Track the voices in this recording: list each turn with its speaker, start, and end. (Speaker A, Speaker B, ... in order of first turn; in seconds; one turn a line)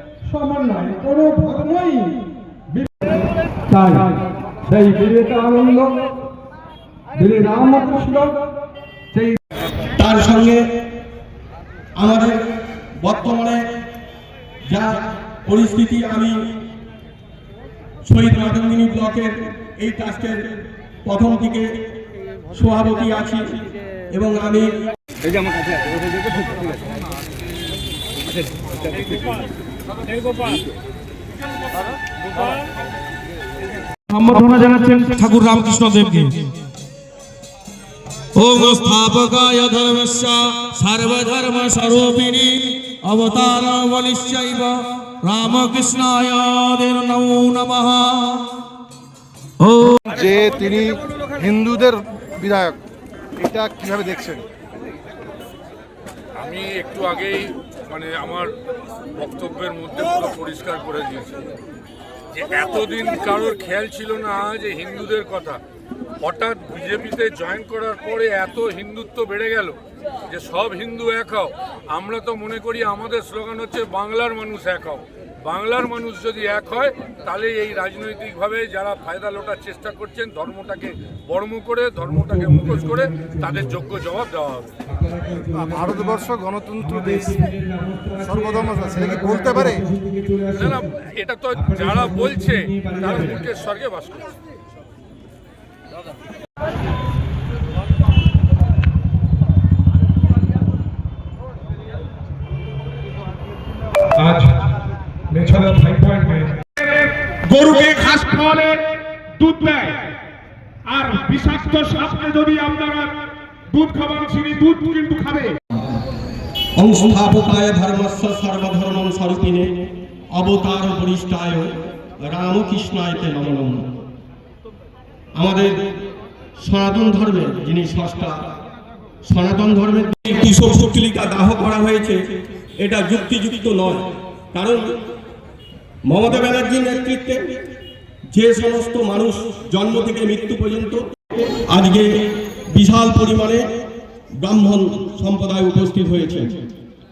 Speaker A: 0.2-2.2
Speaker A: 3.7-4.1
Speaker A: 4.6-5.9
Speaker A: 7.2-8.4
Speaker A: 9.1-9.4
Speaker B: 10.0-10.6
Speaker B: 12.0-12.4
Speaker B: 13.0-13.6
Speaker B: 14.7-16.4
Speaker B: 18.1-21.7
Speaker B: 22.5-24.7
Speaker C: 34.1-36.5
Speaker C: 38.3-48.5
Speaker C: 49.6-50.1
Speaker D: 50.2-52.8
Speaker A: 50.5-50.9
Speaker A: 51.4-52.7
Speaker D: 53.4-54.4
Speaker A: 53.4-54.4
Speaker E: 56.4-58.5
Speaker E: 59.1-61.5
Speaker E: 62.3-65.6
Speaker E: 66.2-84.8
Speaker D: 84.9-90.8
Speaker A: 85.5-87.3
Speaker A: 88.4-89.8
Speaker E: 90.5-94.3
Speaker D: 91.7-93.2
Speaker A: 104.2-104.5
Speaker A: 105.3-106.5
Speaker F: 107.6-108.8
Speaker F: 109.5-109.8
Speaker F: 111.4-111.9
Speaker A: 112.0-112.7
Speaker F: 113.9-115.4
Speaker A: 114.8-115.5
Speaker B: 116.8-119.8
Speaker B: 120.3-123.9
Speaker B: 125.4-125.8
Speaker B: 126.6-128.5
Speaker B: 129.2-135.0
Speaker B: 136.1-137.5
Speaker B: 138.3-141.0
Speaker B: 141.6-143.7
Speaker B: 144.4-146.6